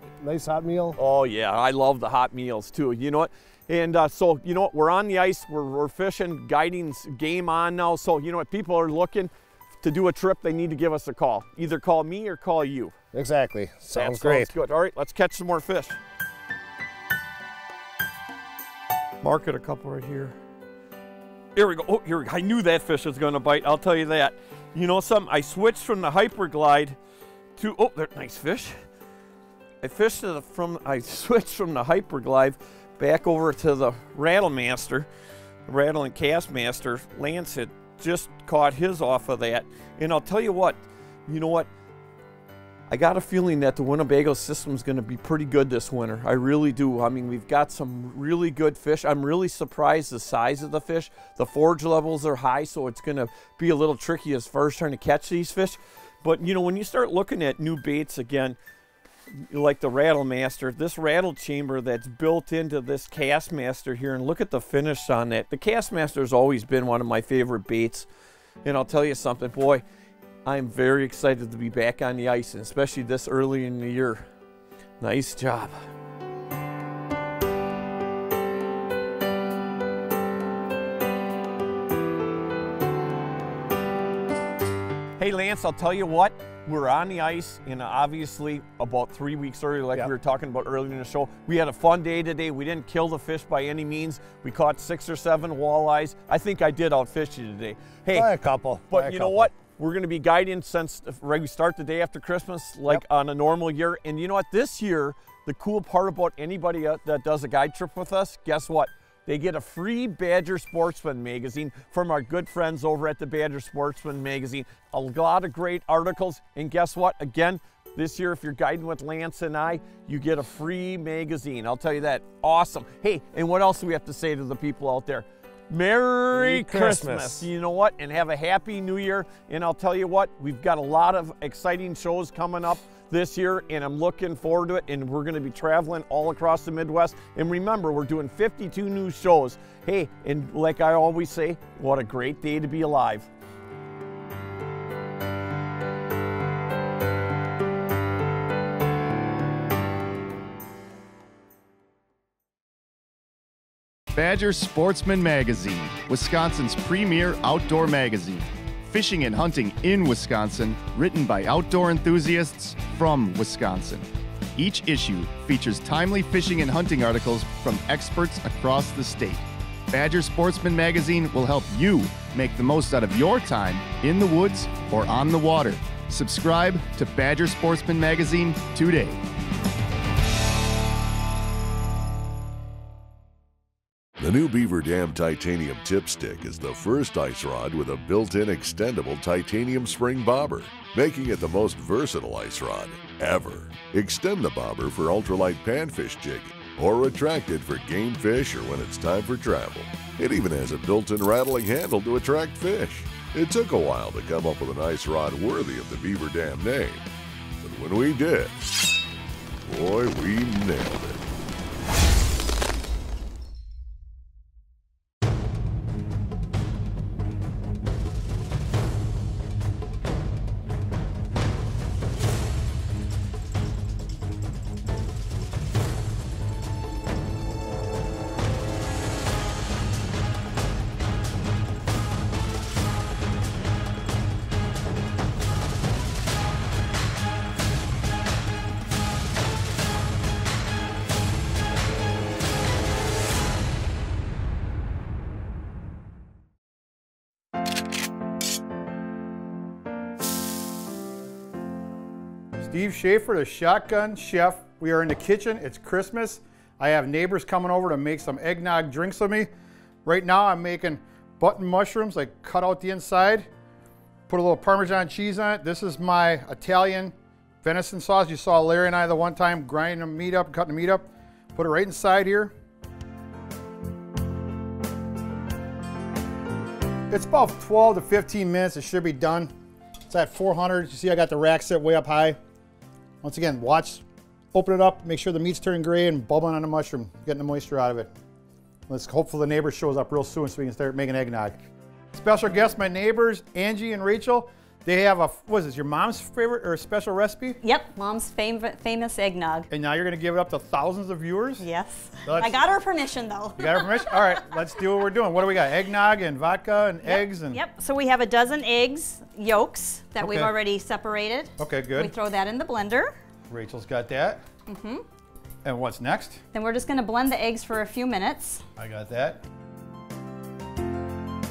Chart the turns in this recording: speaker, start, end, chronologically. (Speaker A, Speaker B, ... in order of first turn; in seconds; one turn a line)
Speaker A: 0.2-1.0
Speaker B: 1.0-9.3
Speaker B: 9.8-12.9
Speaker A: 13.1-14.5
Speaker B: 13.9-16.0
Speaker B: 19.2-20.4
Speaker B: 21.5-27.0
Speaker B: 27.6-28.8
Speaker B: 29.8-35.1
Speaker B: 35.7-41.7
Speaker B: 42.9-58.6
Speaker B: 59.5-68.1
Speaker B: 68.6-69.8
Speaker B: 70.5-74.2
Speaker B: 75.0-75.8
Speaker B: 85.2-98.3
Speaker A: 98.1-99.5
Speaker B: 98.9-143.3
Speaker A: 126.3-127.5
Speaker C: 154.1-179.2
Speaker D: 184.2-207.0
Speaker D: 207.6-208.6
Speaker D: 209.7-211.2
Speaker E: 252.6-259.5
Speaker E: 260.0-263.5
Speaker E: 264.3-272.5
Speaker E: 277.1-279.5
Speaker E: 280.1-282.4
Speaker E: 283.2-284.0
Speaker E: 284.5-288.1
Speaker E: 288.9-291.6
Speaker E: 292.1-297.6
Speaker F: 297.6-299.7
Speaker E: 299.7-301.6
Speaker F: 301.6-304.2
Speaker E: 302.2-302.6
Speaker E: 303.6-307.6
Speaker F: 307.0-313.1
Speaker E: 310.2-310.5
Speaker E: 311.6-312.1
Speaker E: 313.5-314.4
Speaker F: 314.7-315.0
Speaker E: 315.6-316.4
Speaker F: 316.5-318.6
Speaker E: 318.8-319.4